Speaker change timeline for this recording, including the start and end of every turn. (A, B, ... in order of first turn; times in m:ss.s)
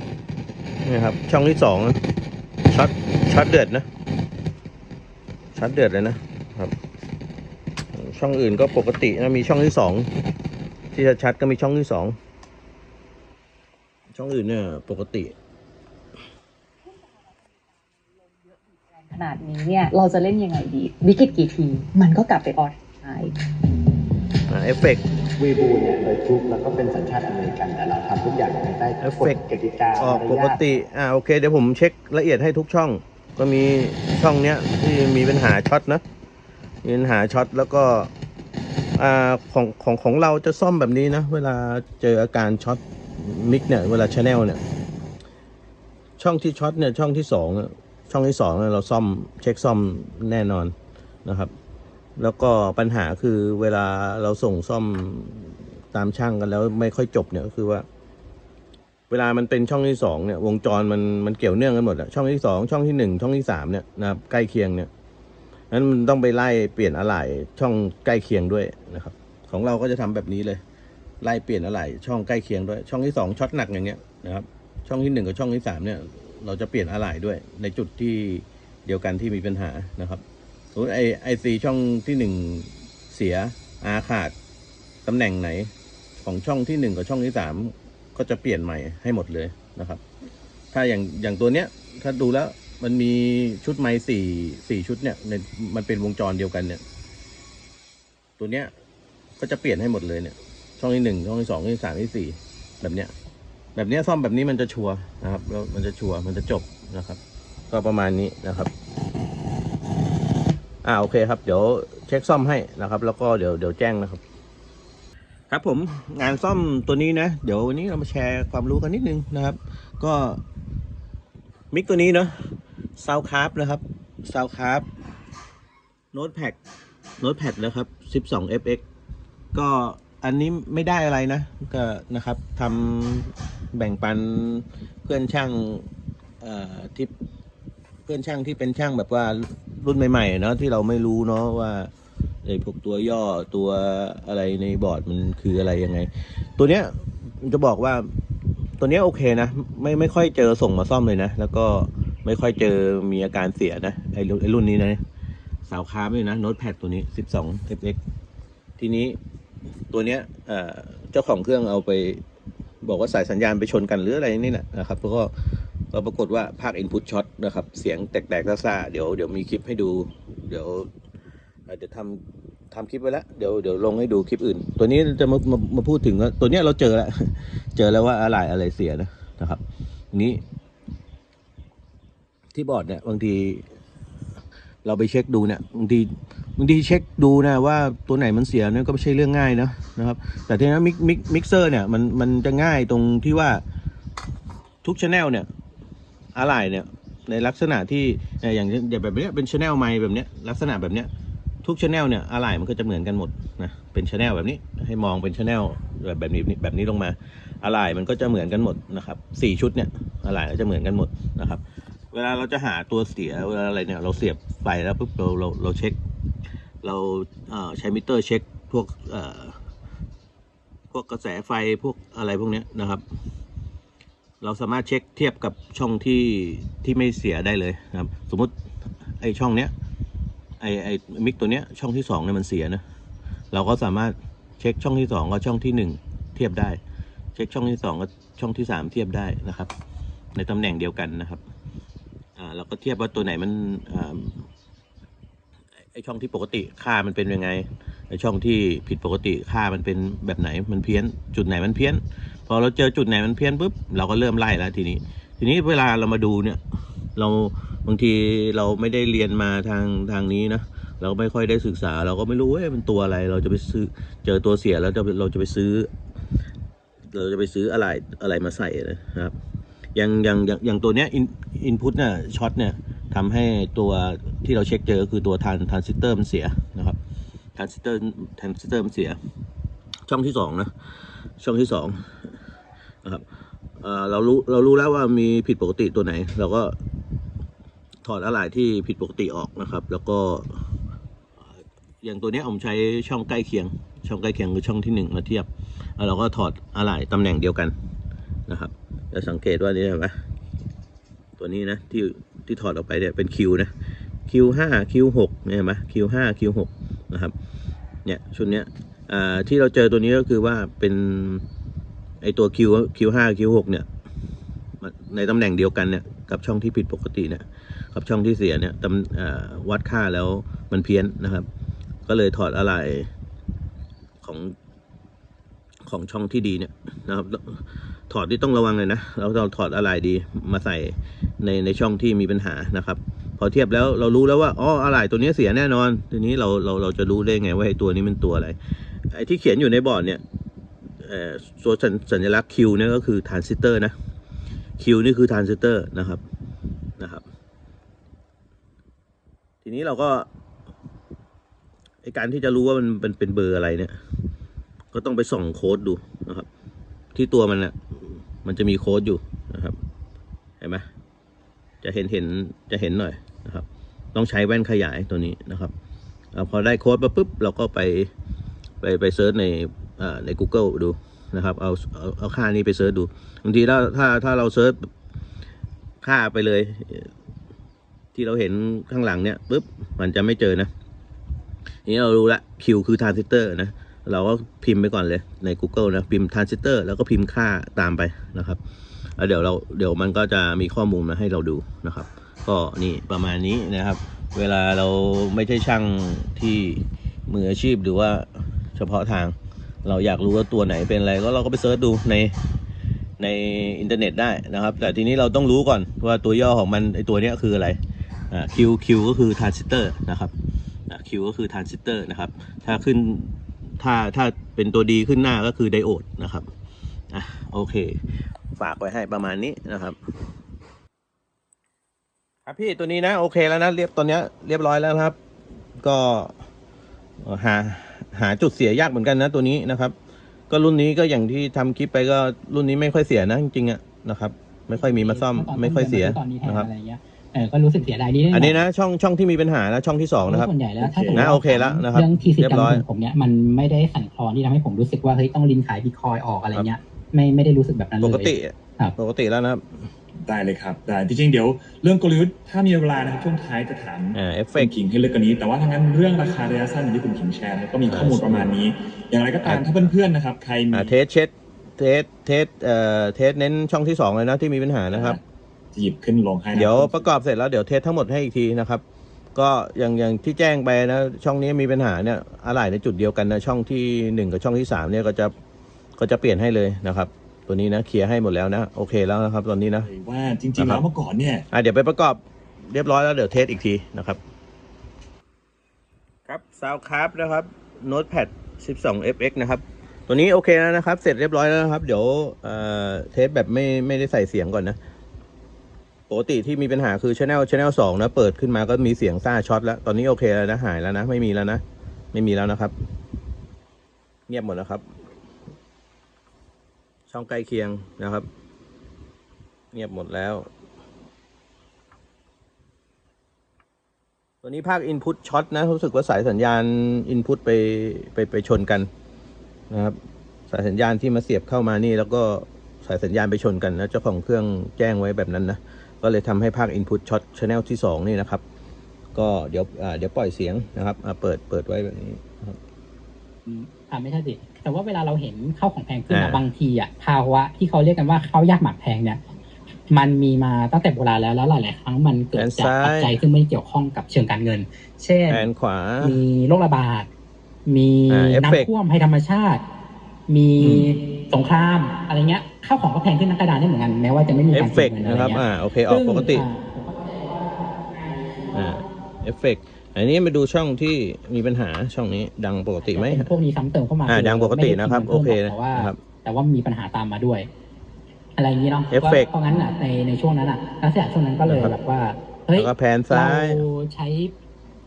0:00.8-0:02.0 A
0:02.7-0:03.8 A
0:05.5-0:06.7 A
0:07.9-0:10.1 A
0:10.9-0:12.2 A
0:14.1-0:15.3 A
0:16.9-0:23.4 B
0:24.5-0:25.0 A
0:25.4-0:30.5 C
0:29.0-0:29.4 A
0:30.0-0:36.0 A
0:36.8-0:38.1 A
0:39.0-0:44.6 A
0:46.2-0:50.7 A
0:51.2-0:51.5 A
0:52.2-0:57.8 A
0:59.1-1:04.9 A
1:05.7-1:10.6 A
1:11.2-1:24.3 A
1:25.0-1:30.0 A
1:30.7-1:36.8 A
1:38.4-1:38.7 A
1:39.4-1:43.1 A
1:43.7-1:48.7 A
1:50.8-1:54.2 A
1:55.5-2:00.4 A
2:01.7-2:02.3 A
2:03.0-2:04.8 A
2:06.1-2:06.6 A
2:07.2-2:08.8 A
2:09.5-2:15.9 A
2:16.4-2:17.1 A
2:18.0-2:21.9 A
2:22.4-2:28.0 A
2:28.8-2:35.0 A
2:35.7-2:38.0 A
2:38.8-2:39.2 A
2:39.9-2:42.2 A
2:42.8-2:45.3 A
2:45.9-2:50.9 A
2:51.7-2:59.6 A
3:00.1-3:00.4 A
3:02.5-3:03.6 A
3:04.8-3:13.6 A
3:14.8-3:15.5 A
3:16.3-3:21.1 A
3:21.6-3:31.6 A
3:32.1-3:36.0 A
3:36.8-3:39.6 A
3:40.9-3:43.0 A
3:44.4-3:48.5 A
3:49.2-3:49.7 A
3:50.6-3:52.8 A
3:53.5-3:56.8 A
3:57.3-3:59.7 A
4:00.3-4:01.4 A
4:02.4-4:04.5 A
4:05.9-4:16.6 A
4:17.2-4:25.9 A
4:27.1-4:29.3 A
4:29.9-4:37.0 A
4:37.6-4:39.2 A
4:40.1-4:42.1 A
4:43.8-4:46.8 A
4:48.0-4:50.6 A
4:51.5-4:57.7 A
4:58.5-5:00.2 A
5:01.4-5:03.7 A
5:04.3-5:07.3 A
5:08.0-5:11.4 A
5:12.2-5:13.9 A
5:14.8-5:21.5 A
5:22.0-5:23.1 A
5:24.2-5:24.5 A
5:25.8-5:38.6 A
5:39.1-5:40.2 A
5:41.0-5:43.9 A
5:44.8-5:46.2 A
5:47.0-5:47.2 A
5:49.6-5:50.3 A
5:52.0-5:54.0 A
5:54.9-5:56.5 A
5:57.1-5:59.8 A
6:00.6-6:00.8 A
6:01.8-6:05.7 A
6:06.3-6:08.1 A
6:08.8-6:14.9 A
6:16.0-6:17.1 A
6:18.1-6:20.7 A
6:21.8-6:28.6 A
6:29.2-6:42.4 A
6:43.2-6:47.8 A
6:48.3-6:50.3 A
6:50.9-6:56.5 A
6:57.1-6:58.0 A
6:58.5-7:00.0 A
7:02.4-7:05.2 A
7:05.8-7:06.4 A
7:07.2-7:09.9 A
7:10.5-7:16.7 A
7:14.7-7:18.6 D
7:18.3-7:20.5 A
7:20.2-7:29.0 D
7:20.8-7:21.3 E
7:21.1-7:22.8 A
7:28.0-7:29.9 A
7:30.2-7:40.9 E
7:34.1-7:34.7 A
7:37.9-7:38.5 A
7:39.4-7:39.9 A
7:40.7-7:45.2 A
7:44.9-7:45.2 E
7:45.7-7:47.1 E
7:46.5-7:48.8 A
7:49.3-7:55.3 A
7:56.0-7:59.9 A
7:59.8-8:01.4 E
8:00.6-8:00.8 A
8:01.5-8:04.2 A
8:06.3-8:14.8 A
8:16.1-8:21.6 A
8:22.1-8:22.7 A
8:24.3-8:24.8 A
8:27.1-8:28.2 A
8:29.7-8:30.5 A
8:34.4-8:38.9 A
8:39.7-8:40.0 A
8:40.5-8:48.4 A
8:49.1-8:52.6 A
8:53.4-8:59.2 D
8:56.1-8:56.4 A
8:59.9-9:05.5 D
9:02.4-9:03.2 A
9:05.3-9:06.2 A
9:06.0-9:07.1 D
9:07.6-9:09.6 D
9:08.1-9:08.7 A
9:10.3-9:18.3 D
9:10.6-9:10.9 A
9:14.5-9:16.5 A
9:18.5-9:23.3 A
9:22.8-9:27.5 D
9:24.1-9:26.0 A
9:28.4-9:34.3 D
9:28.9-9:29.3 A
9:31.4-9:31.7 A
9:32.5-9:33.6 A